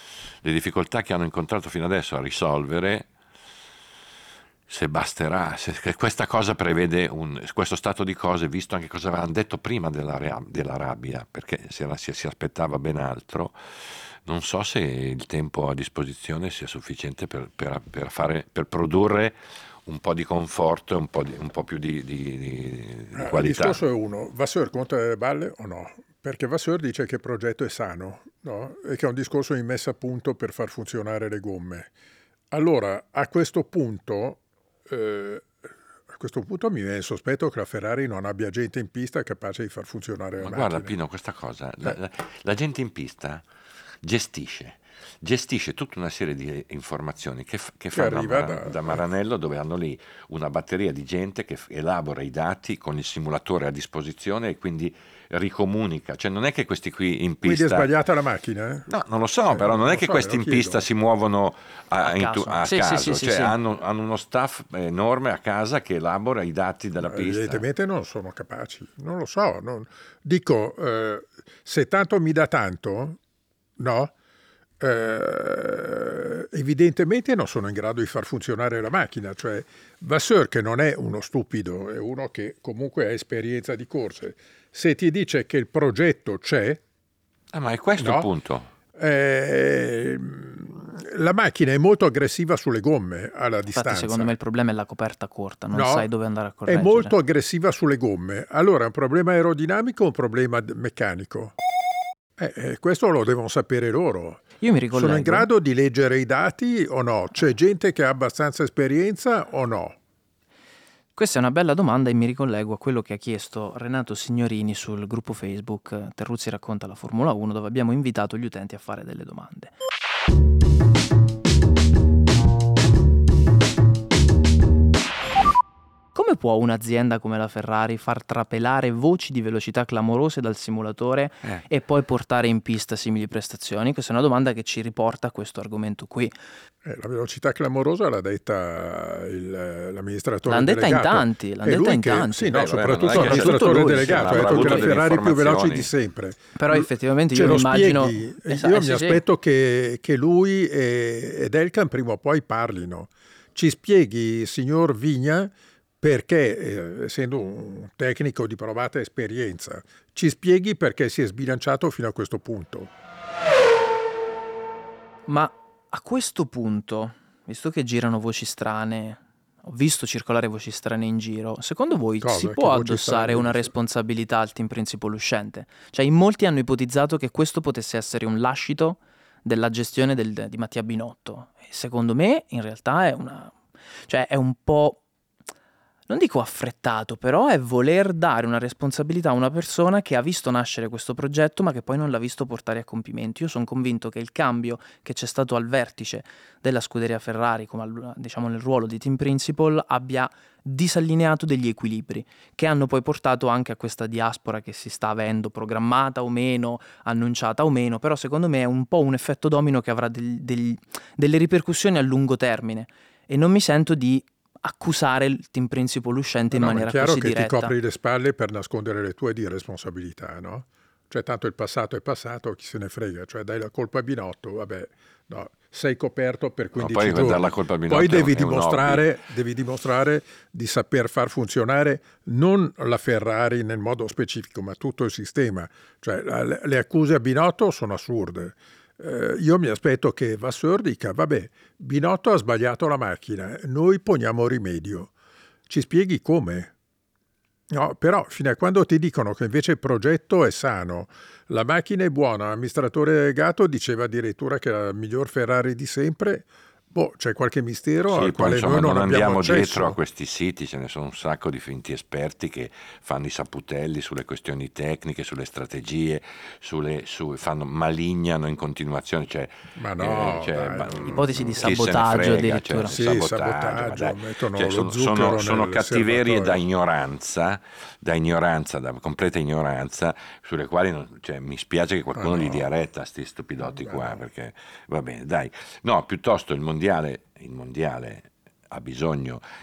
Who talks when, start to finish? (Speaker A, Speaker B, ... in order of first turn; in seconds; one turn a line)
Speaker A: 0.4-3.1
Speaker A: 4.7-19.3
Speaker A: 19.9-23.8
Speaker B: 23.1-31.9
Speaker B: 32.5-35.5
Speaker B: 36.1-40.9
Speaker A: 40.4-43.4
Speaker A: 44.0-57.9
Speaker B: 47.9-49.0
Speaker B: 57.4-58.9
Speaker A: 58.9-67.6
Speaker B: 59.5-60.8
Speaker C: 62.0-63.5
Speaker B: 67.0-73.2
Speaker B: 73.8-74.1
Speaker B: 74.8-86.8
Speaker A: 87.5-88.7
Speaker B: 88.0-88.3
Speaker B: 88.9-94.3
Speaker C: 93.7-97.1
Speaker B: 95.7-96.1
Speaker B: 96.7-101.5
Speaker B: 102.4-110.0
Speaker C: 104.6-105.5
Speaker C: 111.2-119.7
Speaker C: 126.1-136.3
Speaker B: 136.8-162.9
Speaker C: 140.5-144.9
Speaker A: 142.5-145.9
Speaker C: 146.6-149.2
Speaker C: 165.3-183.5
Speaker B: 172.2-173.7
Speaker C: 184.1-185.0
Speaker C: 186.1-217.7
Speaker B: 216.5-245.1
Speaker A: 226.8-229.1
Speaker B: 245.7-246.7
Speaker B: 247.7-260.0
Speaker A: 258.1-289.4
Speaker B: 269.8-271.7
Speaker C: 271.1-273.0
Speaker B: 272.9-276.6
Speaker B: 282.1-282.7
Speaker B: 283.6-284.2